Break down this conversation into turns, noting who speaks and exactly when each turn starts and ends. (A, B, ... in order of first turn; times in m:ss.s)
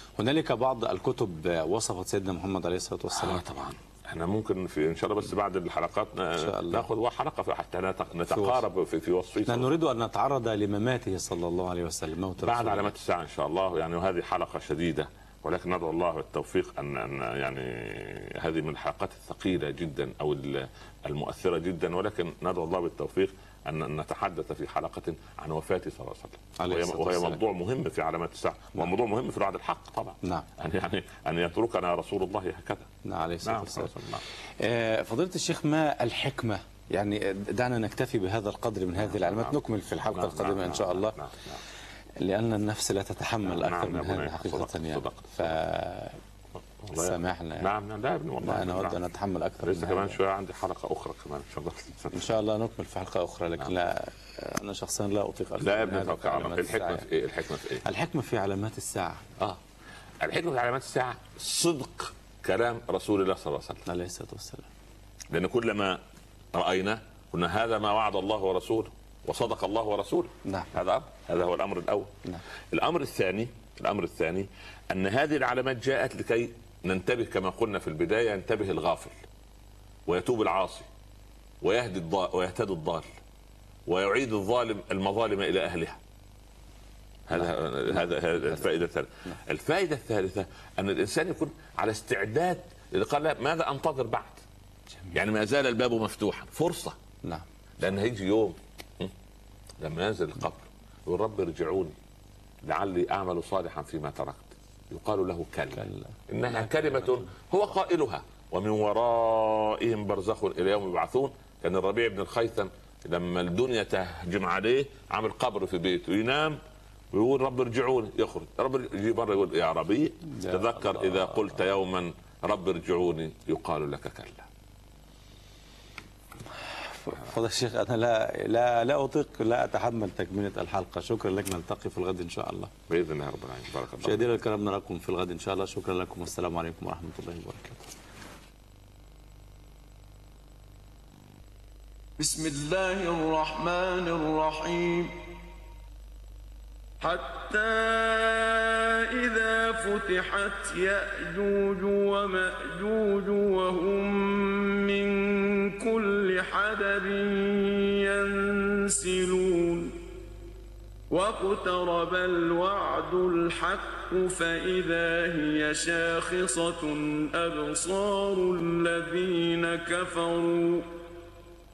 0:00.2-0:03.4 A
0:03.1-0:09.7 B
0:06.4-0:06.9 A
0:08.3-0:08.6 A
0:09.5-0:12.9 A
0:12.4-0:32.9 B
0:26.6-0:27.4 A
0:33.0-0:33.9 A
0:33.4-0:34.2 B
0:34.6-0:41.2 A
0:39.0-0:39.6 B
0:40.1-0:41.6 B
0:42.2-0:46.2 A
0:43.4-0:45.5 B
0:46.8-0:49.0 B
0:46.9-0:47.7 A
0:48.4-0:50.2 A
0:49.6-0:52.3 B
0:52.1-0:57.1 A
0:55.6-0:57.8 B
0:57.8-0:59.2 A
1:00.2-1:03.8 B
1:03.9-1:04.7 A
1:05.3-1:06.0 B
1:06.5-1:12.1 B
1:12.7-1:19.2 B
1:20.1-1:20.9 B
1:21.6-1:23.1 B
1:23.9-1:26.0 B
1:27.3-1:34.4 B
1:35.1-1:37.0 B
1:37.8-1:39.1 B
1:39.8-1:42.0 B
1:42.6-1:56.6 B
1:45.8-1:46.0 A
1:57.1-2:04.5 B
2:00.3-2:01.5 A
2:07.0-2:12.7 A
2:12.9-2:14.2 B
2:14.0-2:17.8 A
2:22.2-2:25.2 C
2:27.0-2:40.0 C
2:41.1-2:50.9 C